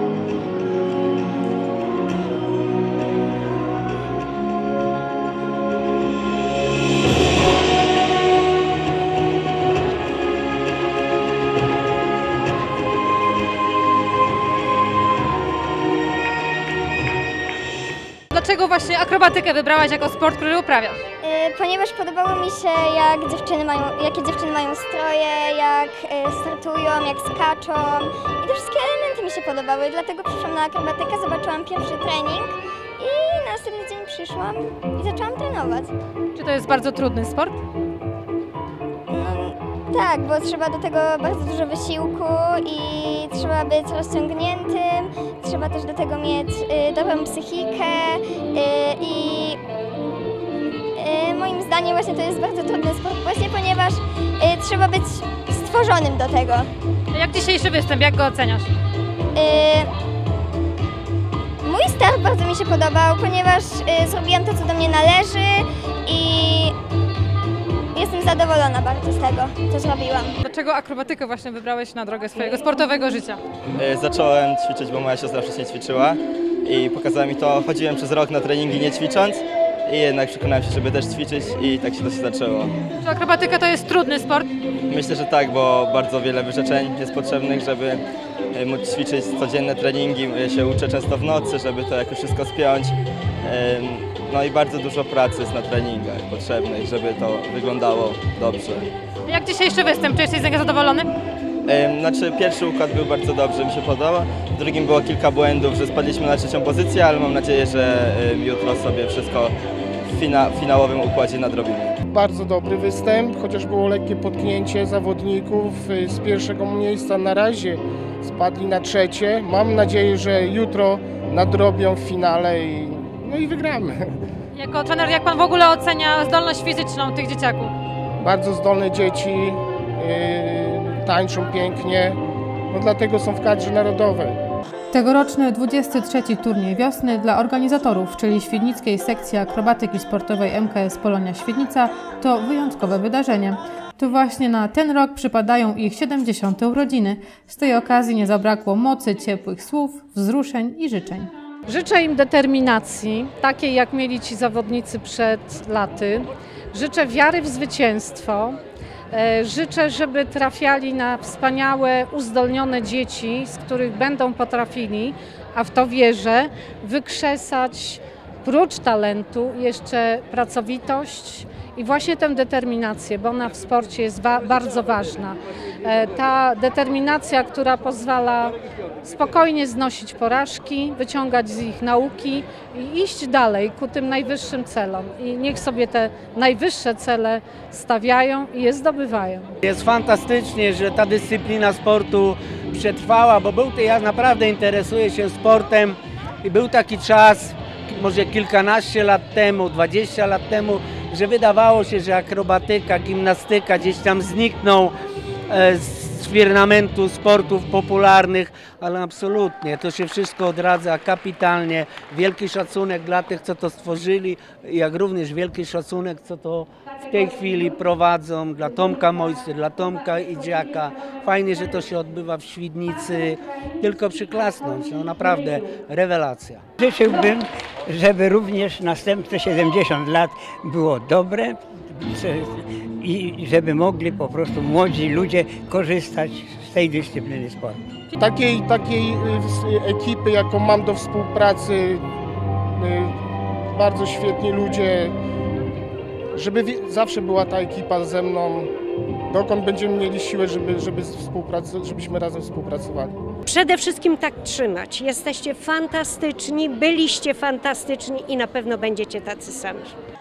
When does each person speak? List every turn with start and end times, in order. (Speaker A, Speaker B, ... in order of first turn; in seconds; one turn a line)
Speaker A: 18.3-21.0
Speaker B: 21.2-35.9
Speaker A: 36.3-37.6
Speaker B: 39.1-49.6
Speaker B: 51.0-56.7
Speaker A: 57.1-58.7
Speaker B: 59.3-59.9
Speaker B: 61.6-66.7
Speaker B: 67.9-70.3
Speaker A: 70.4-73.4
Speaker C: 73.8-82.7
Speaker A: 83.0-84.5
Speaker C: 84.9-98.9
Speaker A: 99.3-101.1
Speaker C: 101.7-109.5
Speaker C: 110.1-112.0
Speaker D: 112.1-124.0
Speaker A: 124.5-127.7
Speaker D: 128.2-132.2
Speaker D: 132.7-134.4
Speaker E: 134.9-151.3
Speaker F: 151.7-158.6
Speaker F: 159.1-189.5
Speaker G: 189.6-204.9
Speaker G: 205.5-226.6
Speaker H: 226.8-237.8
Speaker D: 238.2-242.0
Speaker D: 242.8-243.1
Speaker D: 243.7-245.1
Speaker D: 246.3-248.7
Speaker D: 249.3-253.1
Speaker I: 253.4-259.9